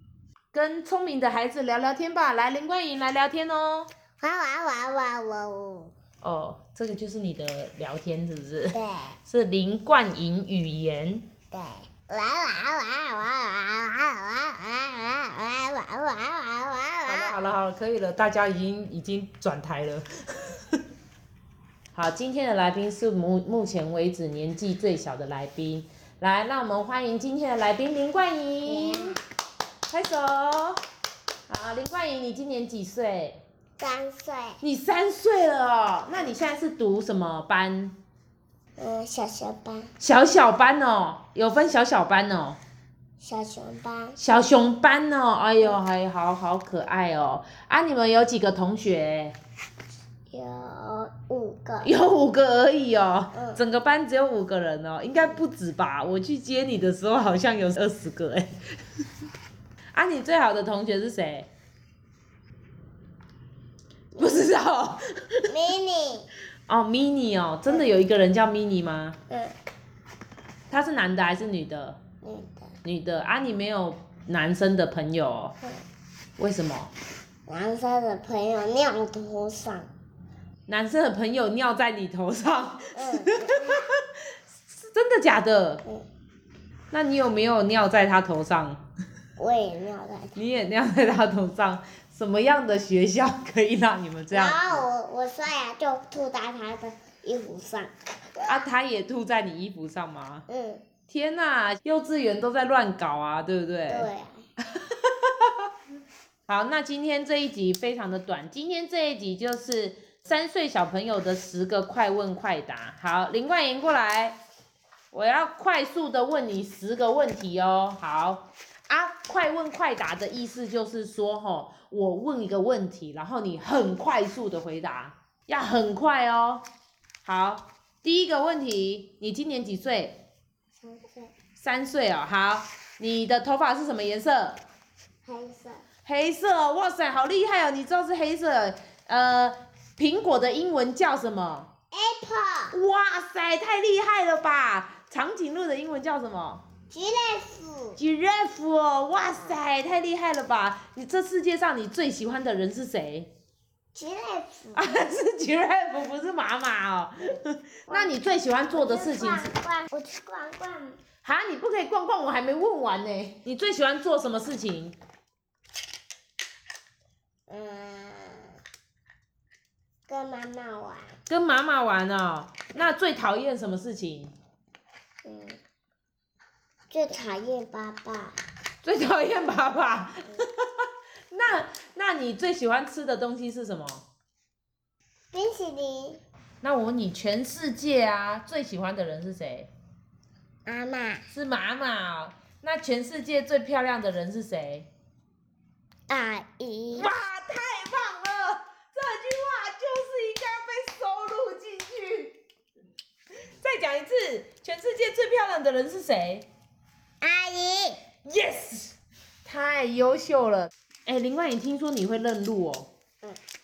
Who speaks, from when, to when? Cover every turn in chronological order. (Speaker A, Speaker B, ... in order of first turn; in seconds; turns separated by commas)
Speaker A: 0.5-3.9, Speaker B: 4.2-5.9, Speaker A: 6.2-11.3, Speaker B: 8.7-9.2, Speaker B: 11.5-17.4, Speaker A: 17.1-20.8, Speaker A: 21.9-29.2, Speaker B: 28.6-29.2, Speaker A: 29.9-30.8, Speaker A: 31.5-33.4, Speaker B: 33.8-34.6, Speaker A: 34.6-38.0, Speaker B: 38.8-39.9, Speaker A: 40.0-42.6, Speaker B: 43.2-44.2, Speaker A: 44.2-49.4, Speaker B: 50.3-51.9, Speaker A: 51.8-58.6, Speaker B: 53.3-53.6, Speaker A: 59.9-61.5, Speaker A: 64.1-65.6, Speaker B: 65.5-66.3, Speaker A: 66.7-69.2, Speaker B: 69.3-69.5, Speaker A: 70.7-72.0, Speaker B: 72.2-72.7, Speaker A: 72.8-75.5, Speaker A: 76.4-76.9, Speaker B: 77.5-79.9, Speaker A: 80.7-84.1, Speaker B: 82.9-83.8, Speaker A: 84.9-85.8, Speaker A: 86.9-88.8, Speaker B: 89.4-90.4, Speaker A: 90.3-94.8, Speaker B: 94.3-98.5, Speaker A: 98.5-100.4, Speaker B: 100.5-100.9, Speaker A: 101.1-104.1, Speaker B: 103.9-104.5, Speaker A: 104.7-105.7, Speaker A: 106.5-114.4, Speaker A: 115.1-126.6, Speaker A: 127.2-130.2, Speaker B: 130.8-131.3, Speaker A: 131.6-134.6, Speaker B: 135.2-135.8, Speaker A: 136.0-141.7, Speaker B: 141.9-142.8, Speaker A: 142.7-146.6, Speaker B: 146.9-148.0, Speaker A: 148.0-153.3, Speaker B: 153.9-154.9, Speaker A: 154.7-159.5, Speaker B: 157.9-161.0, Speaker A: 161.2-164.9, Speaker B: 167.5-168.6, Speaker B: 170.1-171.2, Speaker A: 171.3-174.3, Speaker B: 175.2-175.6, Speaker B: 176.9-178.4, Speaker A: 178.8-184.0, Speaker B: 185.3-186.2, Speaker A: 186.6-189.7, Speaker B: 190.7-191.3, Speaker A: 191.3-194.9, Speaker B: 196.1-197.1, Speaker A: 196.9-202.4, Speaker A: 203.4-206.5, Speaker B: 207.2-208.1, Speaker A: 208.2-212.9